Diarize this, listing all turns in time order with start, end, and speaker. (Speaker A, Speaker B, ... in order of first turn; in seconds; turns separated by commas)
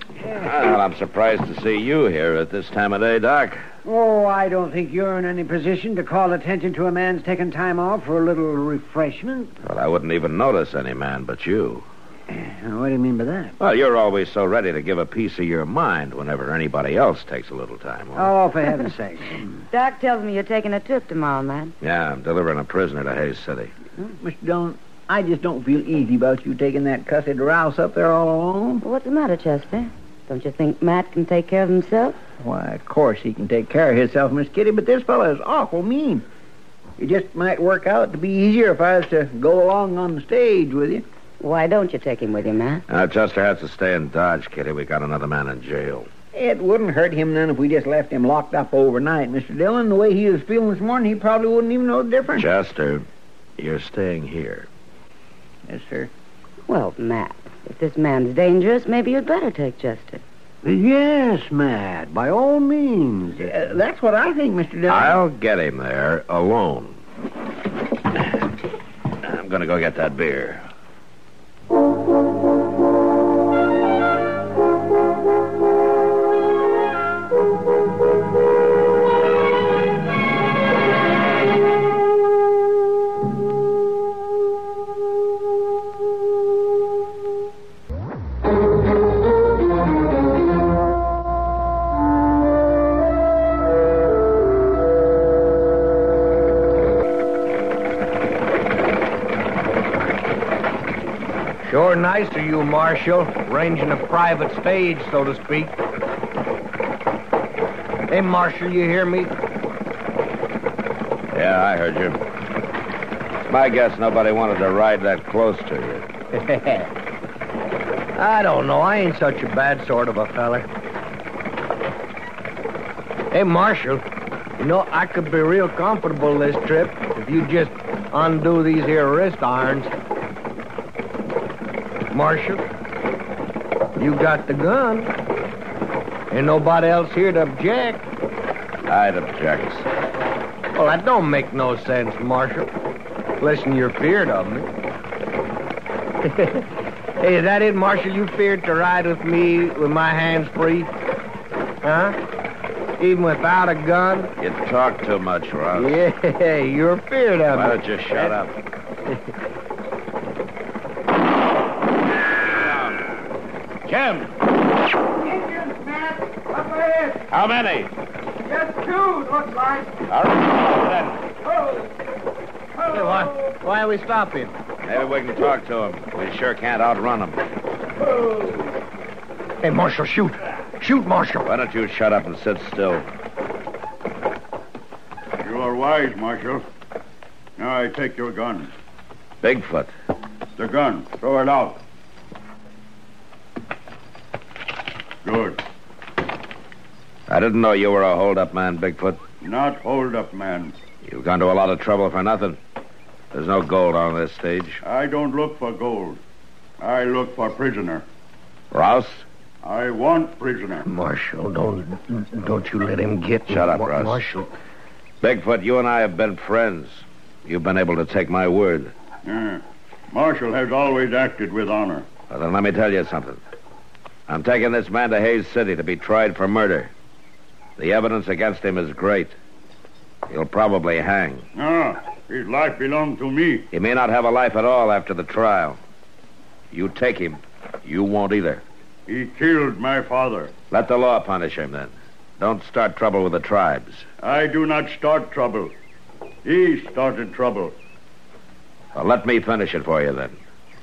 Speaker A: 0.3-3.7, Speaker B: 3.8-9.5, Speaker A: 9.6-11.8, Speaker B: 12.4-13.5, Speaker A: 13.6-18.3, Speaker B: 18.2-19.4, Speaker C: 19.7-21.7, Speaker A: 21.8-23.7, Speaker D: 24.2-28.8, Speaker C: 28.8-32.2, Speaker D: 32.4-36.2, Speaker D: 37.0-41.0, Speaker C: 41.4-42.8, Speaker A: 42.9-46.1, Speaker D: 46.3-52.5, Speaker A: 52.3-53.1, Speaker A: 53.6-54.7, Speaker D: 55.7-56.1, Speaker C: 56.7-60.2, Speaker B: 60.6-63.5, Speaker D: 63.4-65.2, Speaker A: 64.8-67.0, Speaker A: 69.2-70.7, Speaker E: 101.6-105.8, Speaker E: 108.1-109.3, Speaker A: 111.3-112.2, Speaker A: 113.4-116.1, Speaker E: 118.1-120.7, Speaker E: 123.3-124.0, Speaker E: 124.6-129.9, Speaker E: 132.1-132.6, Speaker E: 133.9-135.1, Speaker E: 136.3-138.1, Speaker A: 138.9-139.9, Speaker E: 140.7-142.7, Speaker E: 143.4-144.7, Speaker E: 146.2-146.7, Speaker E: 147.2-150.9, Speaker E: 151.8-152.2, Speaker E: 153.0-154.3, Speaker A: 154.4-156.0, Speaker E: 155.7-158.3, Speaker A: 157.5-158.6, Speaker A: 162.5-163.1, Speaker A: 163.8-164.3, Speaker D: 165.4-166.1, Speaker D: 166.7-167.1, Speaker A: 167.3-167.9, Speaker A: 170.1-171.3, Speaker E: 172.9-174.5, Speaker A: 174.8-177.4, Speaker E: 179.6-181.5, Speaker A: 181.4-183.1, Speaker F: 185.4-186.6, Speaker F: 187.6-188.7, Speaker A: 189.4-189.9, Speaker F: 190.6-191.8, Speaker F: 195.2-195.6, Speaker A: 197.3-199.2, Speaker F: 199.4-200.8, Speaker A: 201.0-202.6, Speaker A: 203.3-204.8, Speaker F: 204.8-206.2, Speaker F: 206.8-208.0, Speaker A: 208.7-209.2, Speaker F: 209.6-210.9, Speaker E: 210.8-214.5, Speaker A: 213.5-214.2, Speaker A: 215.2-218.9, Speaker F: 219.2-222.1, Speaker A: 222.3-223.4, Speaker A: 224.3-226.9, Speaker A: 227.8-229.4, Speaker A: 230.3-231.4, Speaker F: 231.5-233.7, Speaker A: 233.7-235.8, Speaker A: 236.7-238.6, Speaker F: 239.1-240.5, Speaker A: 240.7-244.1, Speaker F: 244.2-245.7, Speaker F: 246.4-247.7, Speaker A: 248.9-250.4